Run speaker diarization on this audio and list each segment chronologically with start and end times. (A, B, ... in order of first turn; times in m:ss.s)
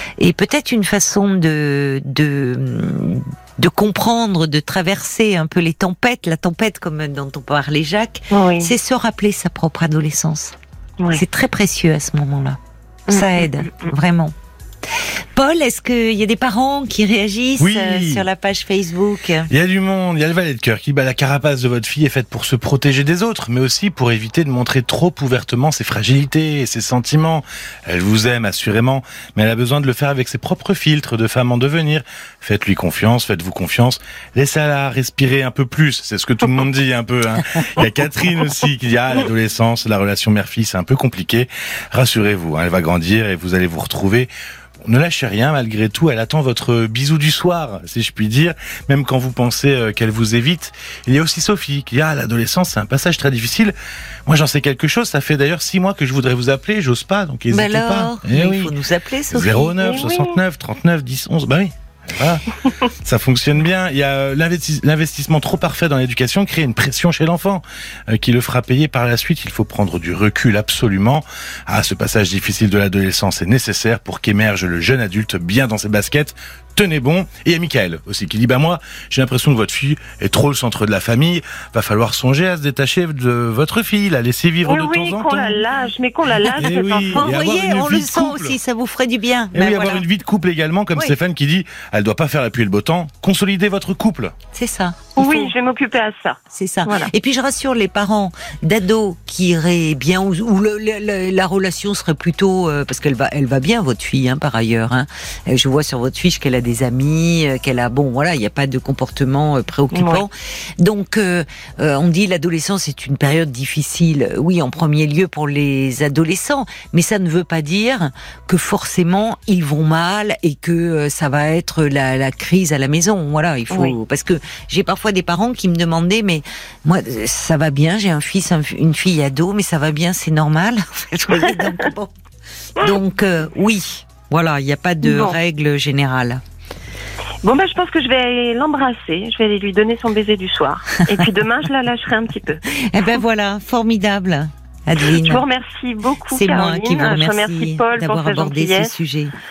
0:00.2-0:10.6 A
0:08.3-0:08.7 B
0:11.1-0:12.6 A
0:13.1-0:13.9 B
0:13.1-0:14.3 A
0:14.8-0:19.5 A
0:17.6-0:18.2 C
0:19.5-0:44.3 C
0:44.8-0:53.7 C
0:54.3-0:58.8 C
0:57.5-0:59.8 A
0:59.3-1:25.6 C
0:59.8-1:00.4 B
1:24.6-1:27.3 B
1:26.5-1:28.6 C
1:26.6-1:30.0 A
1:29.5-1:34.3 C
1:34.5-1:35.5 A
1:35.2-1:37.1 B
1:36.5-2:12.1 A
1:49.9-1:50.2 B
2:03.7-2:04.0 B
2:12.8-2:16.4 A
2:15.0-2:15.4 B
2:17.4-2:22.6 B
2:22.6-2:25.4 A
2:25.1-2:28.9 B
2:26.3-2:29.4 A